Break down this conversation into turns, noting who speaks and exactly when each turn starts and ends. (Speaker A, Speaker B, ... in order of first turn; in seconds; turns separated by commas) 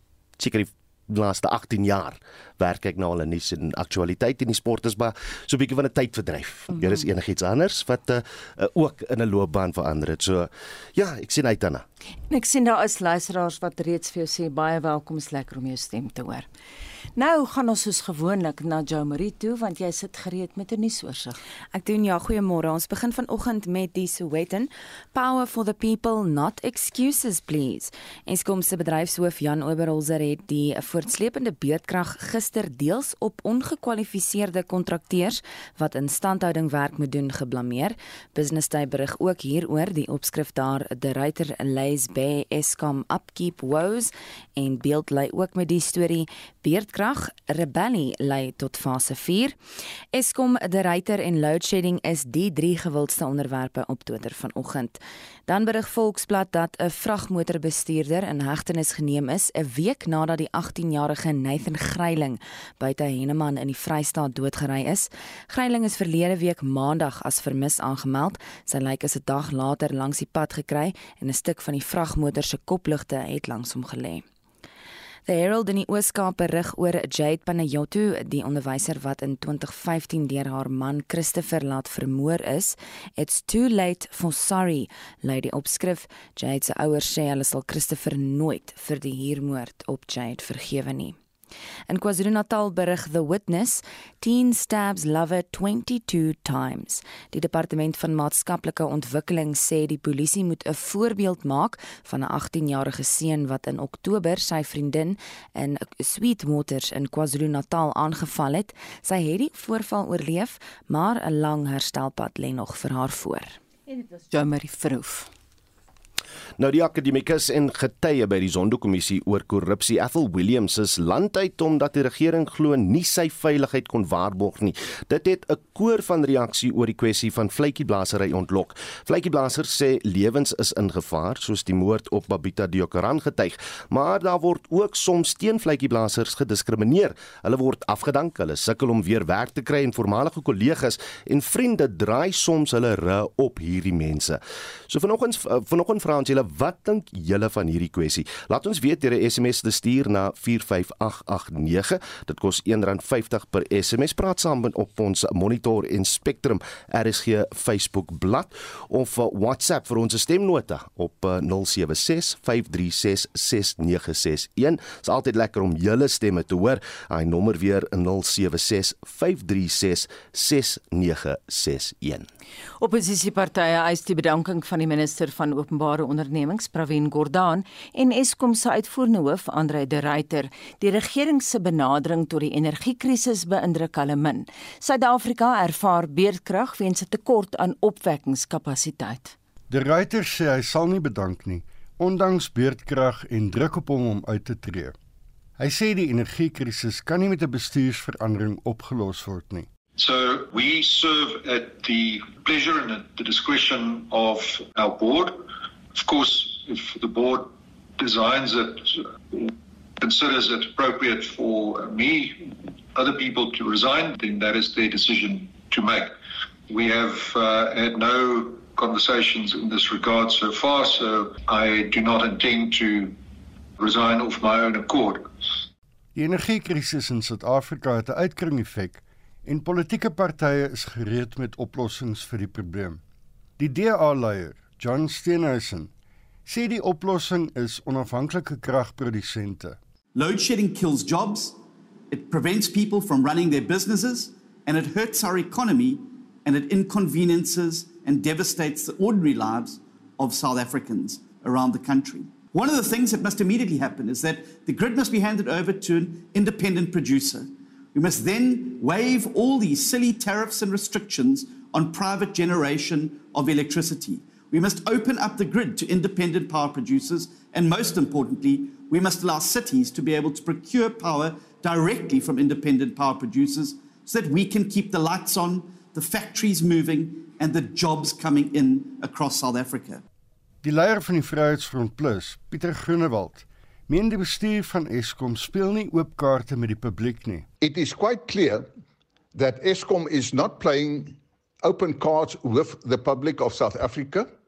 Speaker A: 0.4-11.8, Speaker B: 12.3-16.5, Speaker B: 17.1-21.4, Speaker C: 21.7-49.5, Speaker C: 50.1-74.2, Speaker C: 75.3-91.2, Speaker C: 91.9-113.6, Speaker B: 114.2-115.3, Speaker A: 116.6-172.3, Speaker B: 172.8-189.3, Speaker D: 189.7-194.9, Speaker D: 195.6-199.7, Speaker E: 200.0-216.1, Speaker E: 216.7-223.2, Speaker E: 223.8-225.3, Speaker D: 226.2-233.0, Speaker D: 233.6-235.9, Speaker D: 236.4-239.8, Speaker F: 240.1-241.6, Speaker F: 242.1-280.0, Speaker D: 280.6-287.4, Speaker G: 287.6-288.7, Speaker G: 289.3-294.3